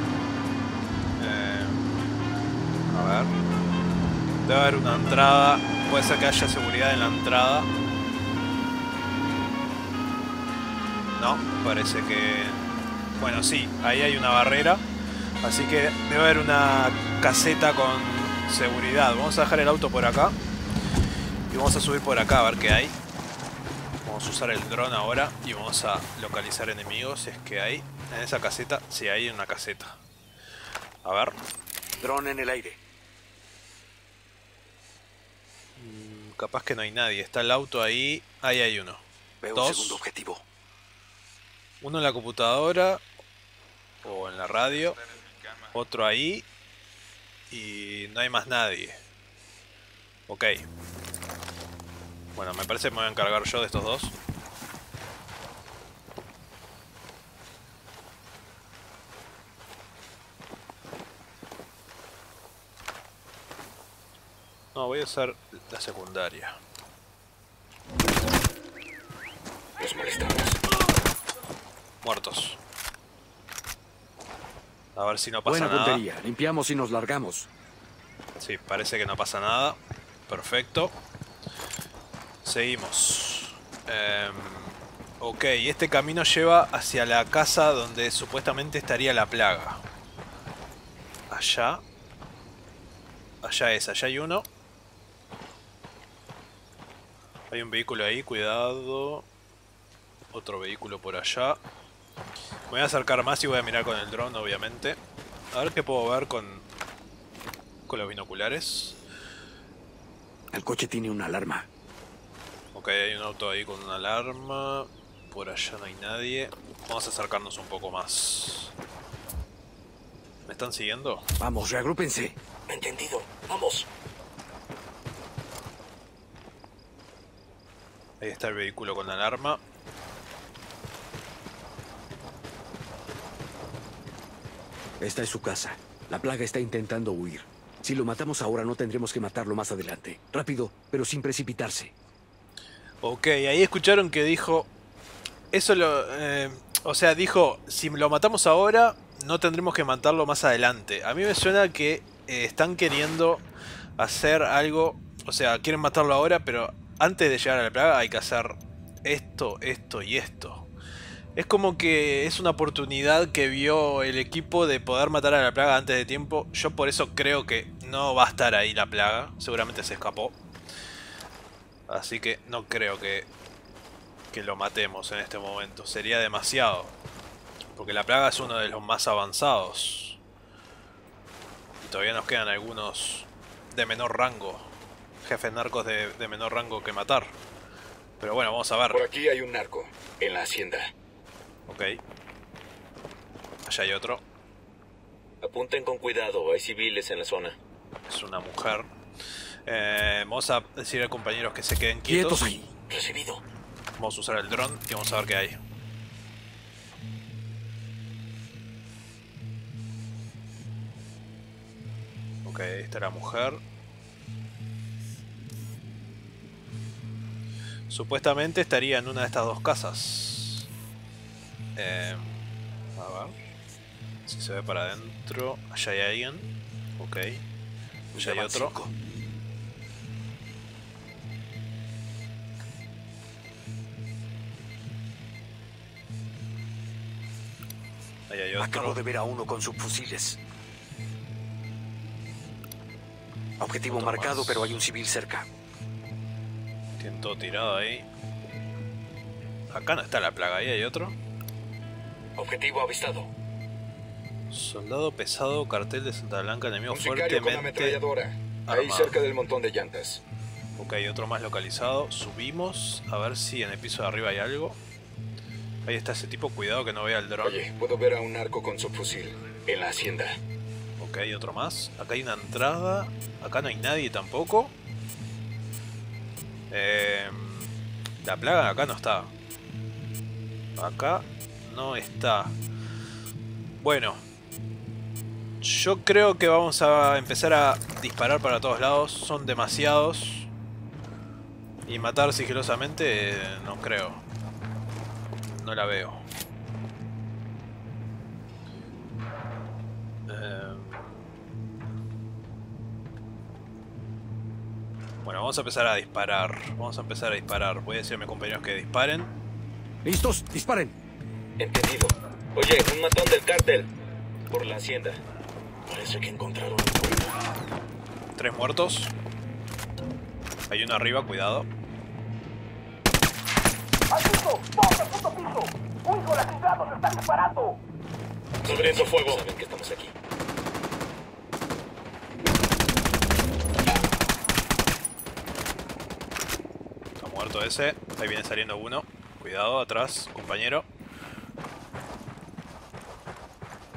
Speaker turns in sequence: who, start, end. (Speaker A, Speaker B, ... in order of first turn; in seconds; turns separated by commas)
Speaker A: 1.2-1.9, Speaker A: 2.9-3.3, Speaker A: 4.5-7.7, Speaker A: 11.1-14.8, Speaker A: 15.4-20.4, Speaker A: 21.5-22.9, Speaker A: 24.0-30.0, Speaker A: 31.0-31.4, Speaker B: 32.0-32.8, Speaker A: 35.8-39.0, Speaker B: 39.4-40.4, Speaker A: 39.5-40.0, Speaker A: 41.8-43.0, Speaker A: 44.0-45.0, Speaker A: 45.7-46.5, Speaker A: 47.5-49.0, Speaker A: 50.3-50.6, Speaker A: 52.3-54.1, Speaker A: 64.7-66.5, Speaker C: 69.8-70.6, Speaker A: 72.0-72.6, Speaker A: 75.0-76.0, Speaker B: 75.5-77.5, Speaker A: 78.4-79.8, Speaker A: 80.3-80.9, Speaker A: 82.4-89.8, Speaker A: 91.3-91.8, Speaker A: 93.4-94.5, Speaker A: 97.5-99.2, Speaker A: 100.3-101.6, Speaker A: 102.7-105.0, Speaker A: 105.5-106.6, Speaker A: 107.9-109.0, Speaker B: 110.5-111.7, Speaker A: 112.7-118.7, Speaker A: 120.5-121.2, Speaker B: 121.4-122.4, Speaker C: 122.7-123.9, Speaker A: 128.2-129.6, Speaker B: 135.0-141.9, Speaker A: 143.0-144.7, Speaker A: 145.5-153.4, Speaker A: 154.0-160.7, Speaker A: 161.4-170.3, Speaker A: 171.9-173.3, Speaker A: 174.3-176.9, Speaker A: 177.7-180.2, Speaker A: 181.8-184.7, Speaker A: 185.2-187.3, Speaker A: 188.2-189.0, Speaker C: 188.9-190.9, Speaker A: 191.7-192.0, Speaker A: 193.7-194.2, Speaker C: 195.4-197.6, Speaker A: 198.1-198.9, Speaker A: 199.7-202.6, Speaker B: 202.0-202.7, Speaker C: 202.9-203.4, Speaker A: 204.0-205.6, Speaker A: 212.4-213.6, Speaker A: 217.9-220.7, Speaker A: 221.8-222.4, Speaker A: 222.9-223.3, Speaker A: 224.2-227.4, Speaker B: 228.1-228.9, Speaker A: 228.1-228.7, Speaker A: 238.3-239.0, Speaker B: 238.6-240.4, Speaker B: 243.6-245.5, Speaker A: 243.9-244.8, Speaker A: 247.0-248.1, Speaker A: 249.7-251.1, Speaker C: 252.3-253.3, Speaker A: 254.5-258.0, Speaker C: 256.9-260.2, Speaker A: 258.7-259.2, Speaker A: 260.8-264.8, Speaker A: 265.9-267.6, Speaker C: 267.4-270.4, Speaker A: 271.0-274.7, Speaker A: 276.7-277.7, Speaker A: 278.2-279.3, Speaker A: 280.8-282.5, Speaker A: 283.8-284.2, Speaker A: 285.6-290.5, Speaker A: 291.9-294.2, Speaker A: 295.4-296.2, Speaker A: 300.3-301.2, Speaker A: 305.2-309.3, Speaker B: 310.0-310.9, Speaker C: 311.6-313.9, Speaker C: 314.5-315.2, Speaker C: 315.9-317.3, Speaker A: 318.4-319.1, Speaker A: 320.7-321.7, Speaker C: 328.6-330.1, Speaker A: 328.6-329.4, Speaker A: 337.2-340.9